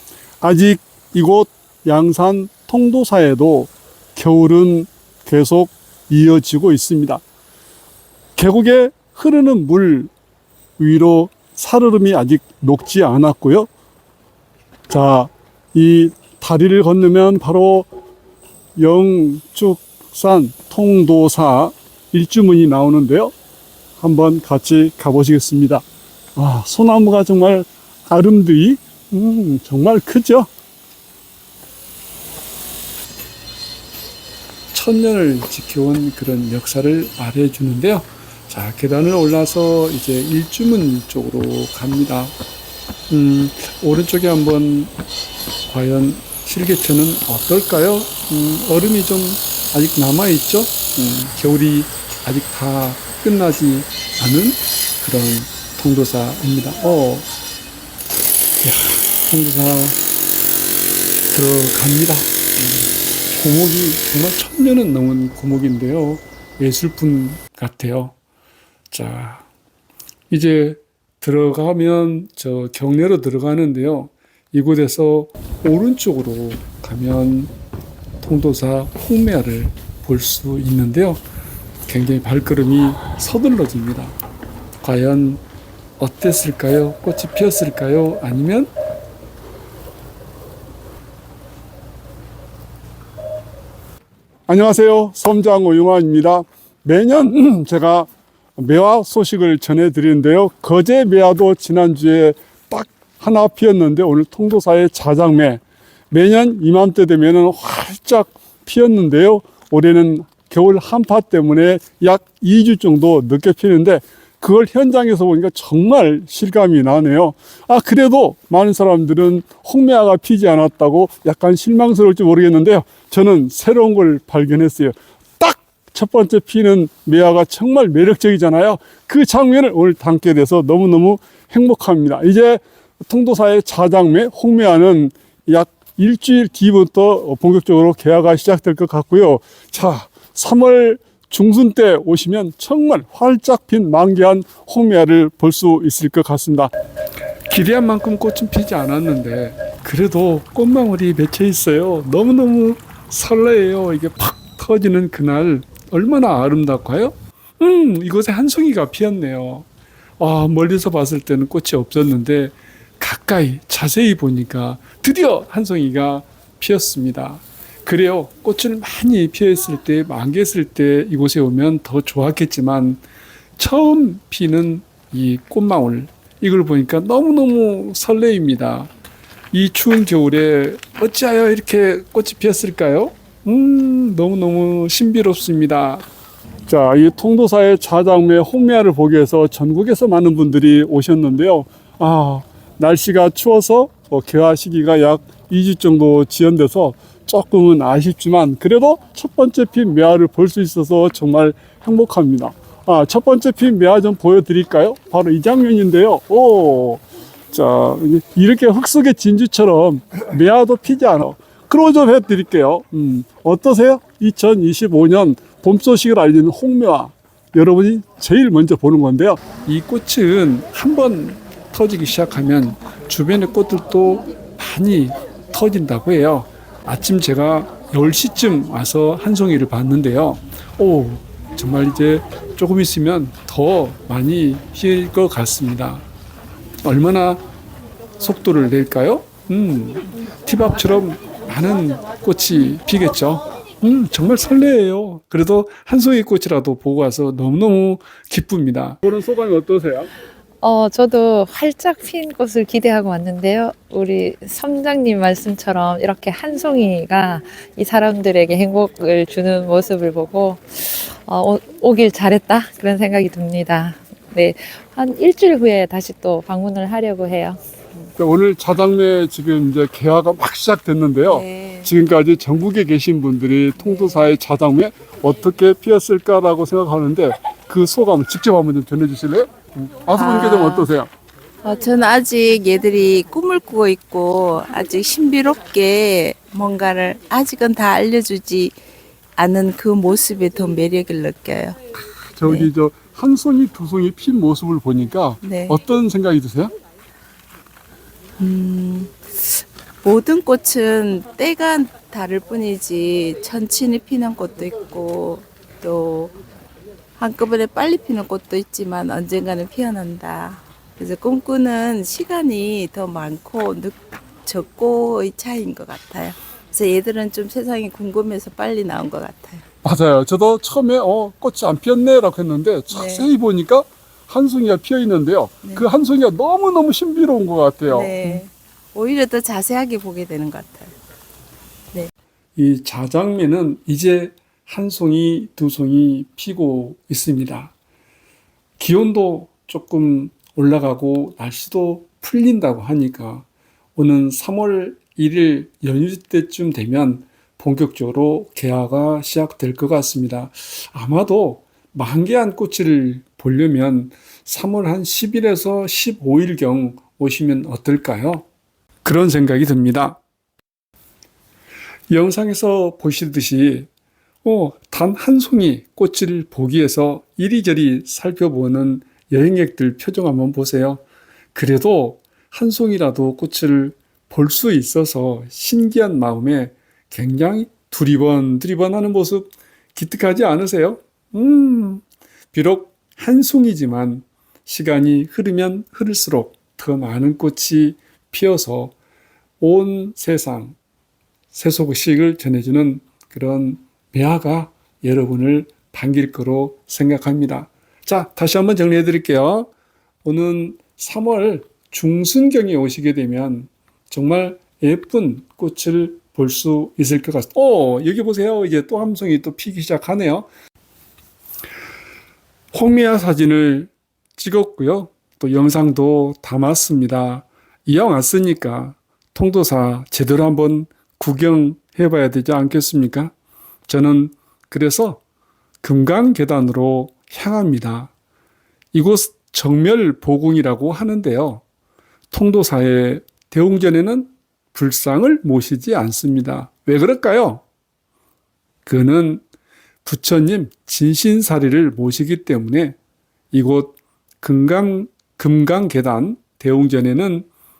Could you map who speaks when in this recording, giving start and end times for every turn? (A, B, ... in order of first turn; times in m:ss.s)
0:00.4-0:07.2 A
0:08.4-0:10.1 A
0:10.8-0:13.7 A
0:14.9-0:17.9 A
0:18.8-0:23.3 A
0:24.0-0:25.8 A
0:26.4-0:30.5 A
0:34.7-0:42.3 B
0:43.1-0:44.9 B
0:45.7-0:57.3 B
0:58.6-1:00.0 B
1:01.3-1:08.2 B
1:08.9-1:09.4 B
1:10.3-1:17.5 B
1:18.2-1:21.2 B
1:21.9-1:24.2 B
1:24.8-1:25.4 B
1:26.0-1:28.7 B
1:34.5-2:26.7 A
2:27.5-2:39.7 B
2:40.2-2:53.0 B
2:53.6-2:58.9 B
2:59.5-3:06.0 B
3:06.7-3:39.5 A
3:39.5-3:56.0 B
3:56.8-3:57.4 B
3:58.2-4:09.0 B
4:09.0-4:10.1 A
4:10.6-4:27.6 C
4:28.2-4:41.1 A
4:31.2-4:31.9 D
4:33.8-4:34.4 D
4:40.1-4:40.9 D
4:41.6-4:48.8 D
4:49.4-4:51.8 D
4:52.3-4:56.7 A
4:52.4-4:52.7 D
4:55.4-4:55.8 D
4:58.4-5:06.3 D
5:07.2-5:19.6 D
5:19.8-5:21.6 A
5:20.3-5:23.3 B
5:22.4-5:22.8 A
5:22.9-5:23.3 D
5:23.4-5:28.0 A
5:25.5-5:26.3 B
5:25.6-5:25.9 D
5:27.8-5:30.9 D
5:32.6-5:37.7 B
5:38.8-5:58.4 B
5:59.0-6:00.2 B
6:02.1-6:03.9 B
6:04.4-6:11.0 B
6:11.5-6:28.9 B
6:29.6-6:30.8 B
6:31.5-6:39.7 B
6:40.2-6:50.5 B
6:52.7-7:03.3 B
7:03.9-7:05.2 B
7:05.8-7:08.1 B
7:08.9-7:11.6 B
7:12.3-7:17.6 B
7:18.8-7:19.4 B
7:20.0-7:23.0 B
7:23.5-7:27.5 B